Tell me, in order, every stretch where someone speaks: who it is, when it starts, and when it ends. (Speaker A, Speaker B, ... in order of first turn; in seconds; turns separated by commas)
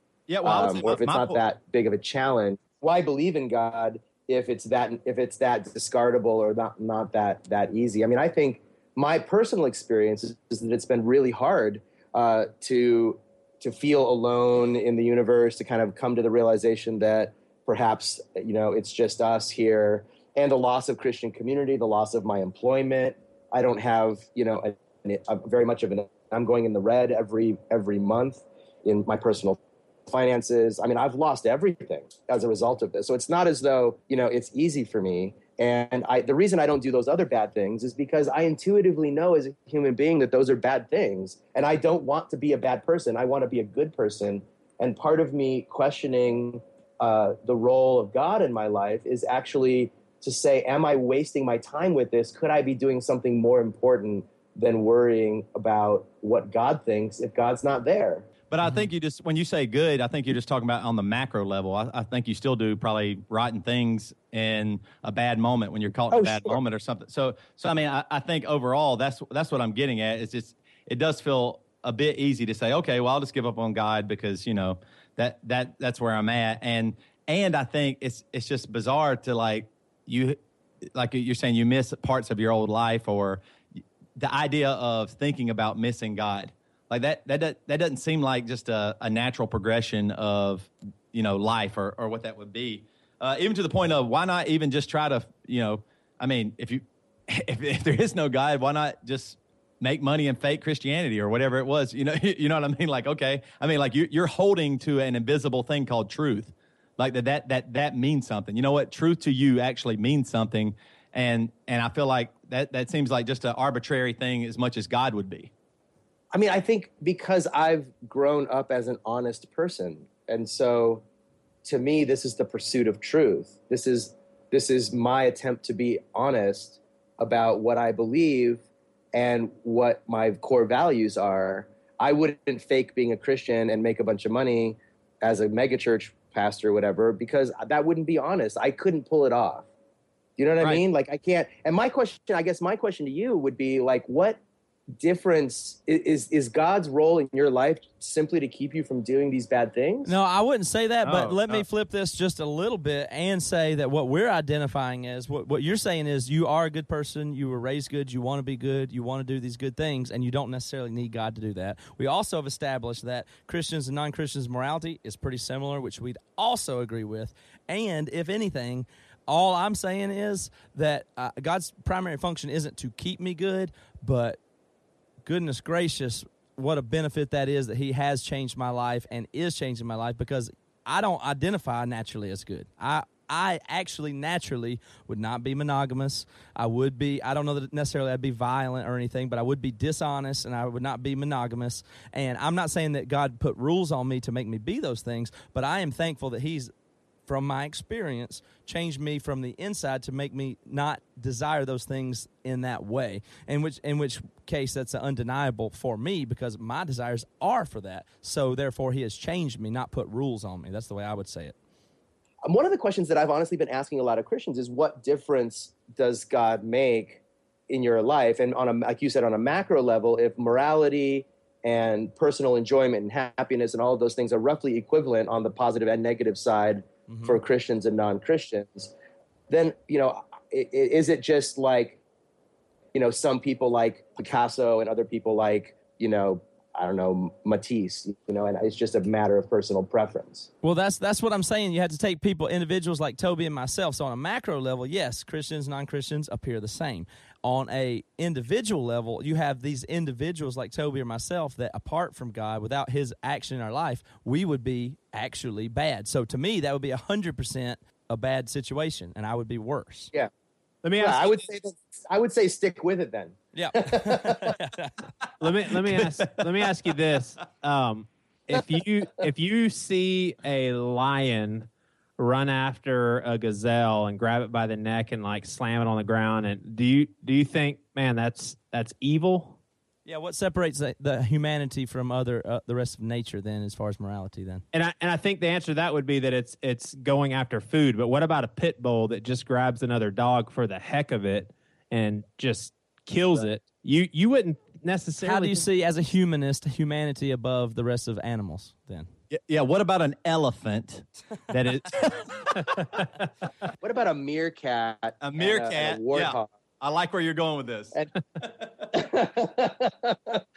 Speaker A: 0.3-1.4, Speaker B: 0.4-58.3, Speaker A: 58.5-80.4, Speaker B: 66.1-66.6, Speaker A: 80.9-83.4, Speaker A: 84.2-115.5, Speaker B: 116.3-121.0, Speaker B: 121.7-128.6, Speaker B: 129.1-139.7, Speaker B: 140.4-144.4, Speaker B: 145.0-150.2, Speaker C: 150.1-174.4, Speaker A: 151.0-151.7, Speaker C: 175.2-196.7, Speaker C: 197.3-211.6, Speaker B: 212.4-228.9, Speaker C: 227.1-227.4, Speaker B: 229.5-232.0, Speaker B: 232.9-240.5, Speaker C: 240.6-260.1, Speaker D: 260.8-261.3, Speaker B: 261.0-264.6, Speaker C: 263.5-264.9, Speaker D: 265.4-279.6, Speaker C: 280.1-284.6, Speaker D: 284.7-295.6, Speaker C: 295.2-299.1, Speaker A: 299.3-303.0, Speaker B: 303.8-306.5, Speaker A: 305.2-308.7, Speaker B: 308.9-310.4